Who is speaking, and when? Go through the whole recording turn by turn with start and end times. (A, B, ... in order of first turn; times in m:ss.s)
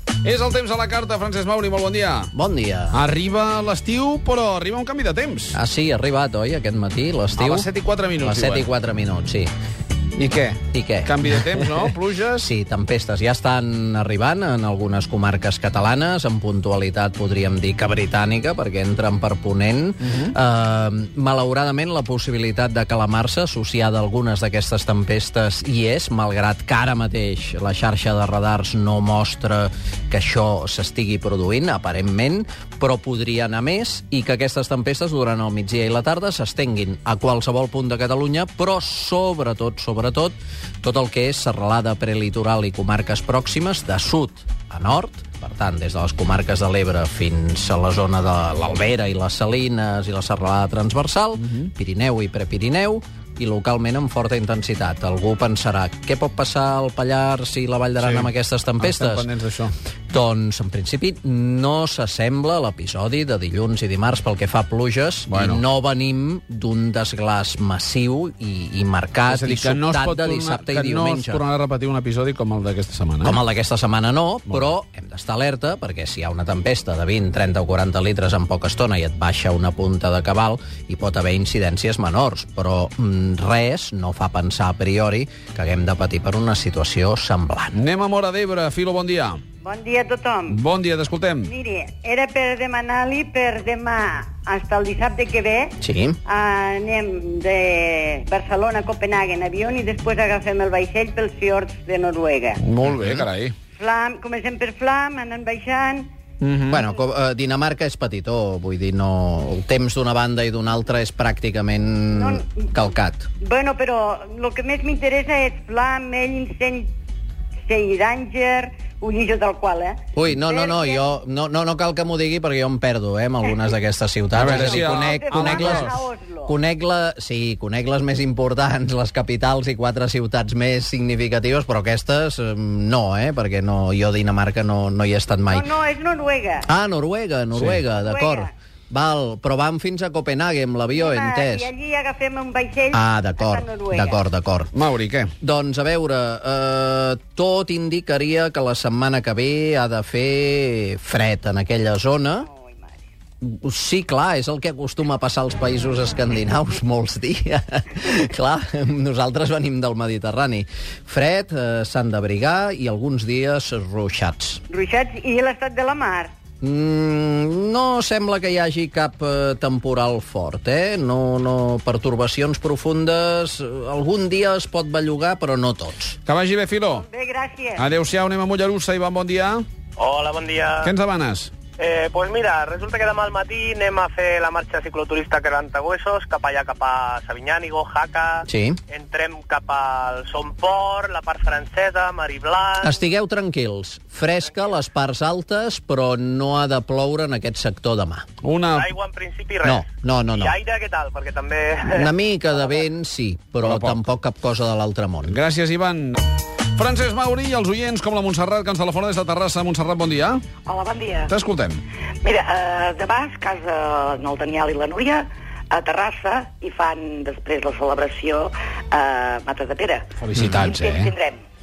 0:00.2-0:02.3 A
0:02.3-0:03.0 B
0:02.9-0:05.6 A
0:05.5-0:09.5 B
0:07.3-0:08.7 A
0:10.2-0:12.5 A
0:10.7-0:59.3 B
0:58.0-0:59.7 A
1:00.1-1:11.4 B
1:05.3-1:05.6 A
1:09.3-1:13.4 A
1:13.2-1:27.8 B
1:27.8-1:29.4 A
1:29.6-1:30.6 C
1:30.5-1:31.5 A
1:31.4-1:42.6 C
1:35.8-1:36.2 B
1:42.6-1:43.5 A
1:42.9-1:43.2 B
1:43.7-1:46.1 C
1:46.4-1:46.8 A
1:46.6-1:53.3 B
1:52.2-1:52.4 C
1:53.4-1:56.9 C
1:57.7-2:01.0 C
2:00.1-2:05.9 B
2:04.3-2:06.1 A
2:04.4-2:06.5 C
2:06.4-2:15.7 B
2:15.5-2:16.7 C
2:16.6-2:21.7 B
2:17.5-2:17.8 A
2:18.0-2:18.5 C
2:21.0-2:24.2 C
2:22.9-2:24.7 B
2:24.7-2:25.3 A
2:25.4-2:32.5 B
2:32.5-2:33.0 C
2:33.4-2:44.6 B
2:44.7-2:46.3 C
2:46.6-2:56.2 B
2:56.2-2:57.0 A
2:57.0-2:57.8 C
2:57.8-2:59.6 A
3:00.0-3:00.8 D
3:00.8-3:01.5 A
3:01.8-3:12.8 D
3:08.4-3:08.8 B
3:12.8-3:18.2 B
3:18.4-3:18.9 A
3:18.7-3:19.8 D
3:19.6-3:20.5 B
3:20.4-3:21.8 D
3:21.9-3:25.4 B
3:23.6-3:24.0 A
3:25.3-3:26.2 A
3:26.8-3:30.4 A
3:30.6-3:31.3 E
3:31.3-3:31.8 A
3:32.2-3:40.1 E
3:40.2-3:41.1 A
3:40.6-3:41.4 E